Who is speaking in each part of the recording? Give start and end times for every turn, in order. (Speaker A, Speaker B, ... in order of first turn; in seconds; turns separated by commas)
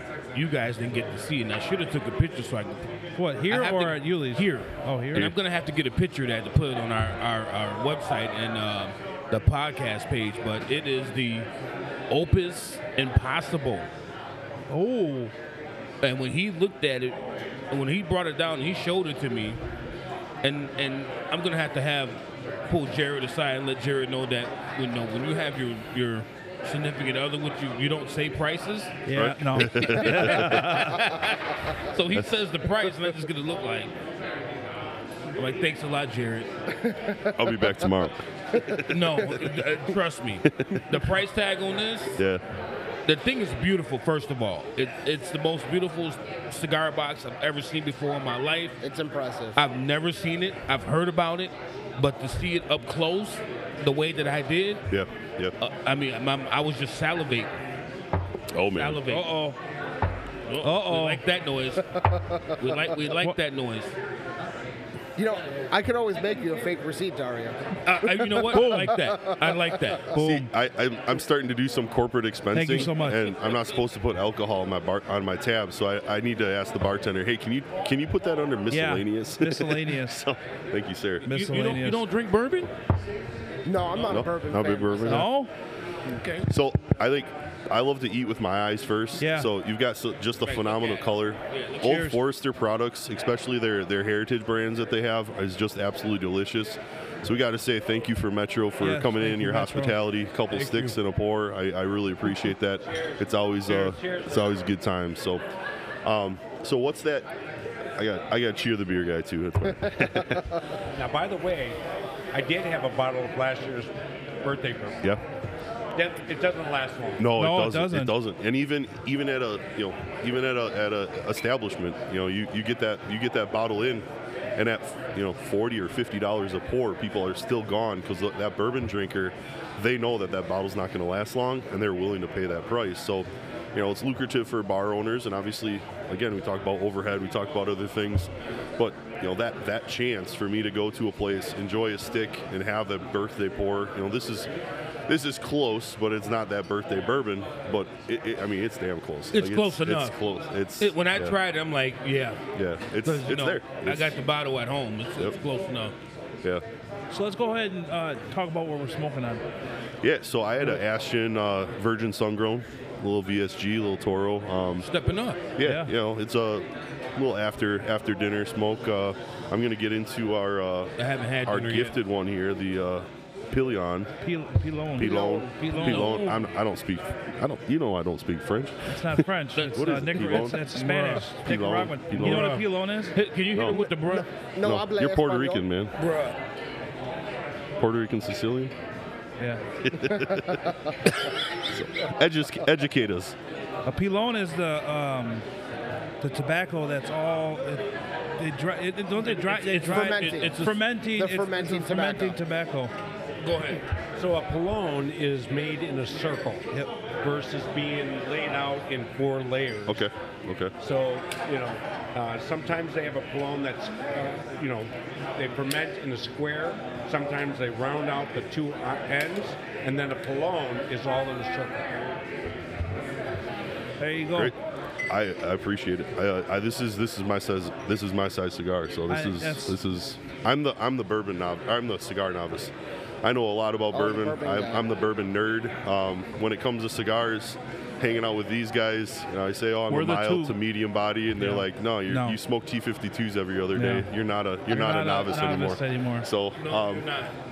Speaker A: 0.3-2.9, Speaker B: 3.2-5.3, Speaker A: 3.4-11.5, Speaker A: 12.1-13.9, Speaker B: 14.7-15.3, Speaker A: 16.0-17.2, Speaker A: 17.7-19.6, Speaker A: 20.4-29.0, Speaker B: 29.1-31.1, Speaker C: 29.1-30.9, Speaker A: 30.3-33.9, Speaker A: 35.4-36.5, Speaker D: 36.8-37.9, Speaker C: 37.4-39.3, Speaker D: 38.5-38.8, Speaker A: 38.9-42.2, Speaker C: 40.5-40.9, Speaker C: 42.1-42.4, Speaker A: 43.1-48.8, Speaker D: 48.8-49.6, Speaker A: 49.6-54.9, Speaker C: 54.9-55.5, Speaker A: 55.6-57.5, Speaker C: 58.5-59.0, Speaker A: 58.8-59.4, Speaker B: 59.1-59.6, Speaker A: 60.5-62.0, Speaker B: 60.6-61.2, Speaker D: 62.0-62.8, Speaker A: 62.6-63.9, Speaker D: 65.2-70.0, Speaker A: 67.8-70.1, Speaker B: 68.5-69.0, Speaker B: 70.1-70.5, Speaker C: 70.1-81.2, Speaker B: 72.5-73.3, Speaker A: 73.4-73.7, Speaker B: 78.7-80.2, Speaker A: 81.2-82.7, Speaker B: 81.2-82.0, Speaker D: 83.6-85.3, Speaker C: 84.1-85.3, Speaker B: 85.1-85.5, Speaker A: 86.1-86.5, Speaker C: 86.5-105.4, Speaker B: 89.2-89.5, Speaker A: 90.4-92.0, Speaker B: 91.8-92.2, Speaker B: 98.8-100.0, Speaker A: 100.6-100.9, Speaker E: 102.8-104.7, Speaker C: 106.0-107.3, Speaker C: 108.0-110.5, Speaker D: 109.9-110.4, Speaker E: 110.9-111.8, Speaker E: 112.3-115.0, Speaker E: 115.9-117.3, Speaker C: 117.2-144.5, Speaker B: 117.3-118.2, Speaker C: 145.1-151.3, Speaker A: 149.3-150.2, Speaker A: 150.8-152.4, Speaker C: 152.6-154.2, Speaker A: 153.0-155.9, Speaker B: 157.1-159.4, Speaker C: 160.0-164.9, Speaker A: 164.8-165.4, Speaker C: 165.6-170.9, Speaker B: 165.6-165.9, Speaker A: 171.0-171.9, Speaker C: 171.4-174.1, Speaker B: 174.2-176.3, Speaker C: 174.9-180.6, Speaker A: 175.6-176.4, Speaker B: 178.9-183.2, Speaker A: 179.6-181.3, Speaker C: 181.2-182.5, Speaker A: 182.1-184.3, Speaker C: 183.5-183.8, Speaker D: 183.7-185.6, Speaker C: 184.6-185.9, Speaker A: 186.0-186.4, Speaker C: 187.8-188.7, Speaker B: 189.4-189.6, Speaker C: 189.8-193.4, Speaker D: 190.1-190.9, Speaker B: 193.9-195.4, Speaker B: 196.2-202.9, Speaker A: 199.4-200.8, Speaker D: 199.8-202.4, Speaker A: 203.4-203.8, Speaker E: 204.2-206.7, Speaker E: 207.2-210.1, Speaker C: 209.9-210.7, Speaker E: 210.8-222.0, Speaker B: 224.0-224.5, Speaker C: 225.1-247.1, Speaker B: 229.1-229.8, Speaker D: 233.9-234.9, Speaker B: 239.9-240.6, Speaker B: 241.3-242.4, Speaker B: 243.7-244.1, Speaker B: 244.7-246.3, Speaker A: 246.6-247.3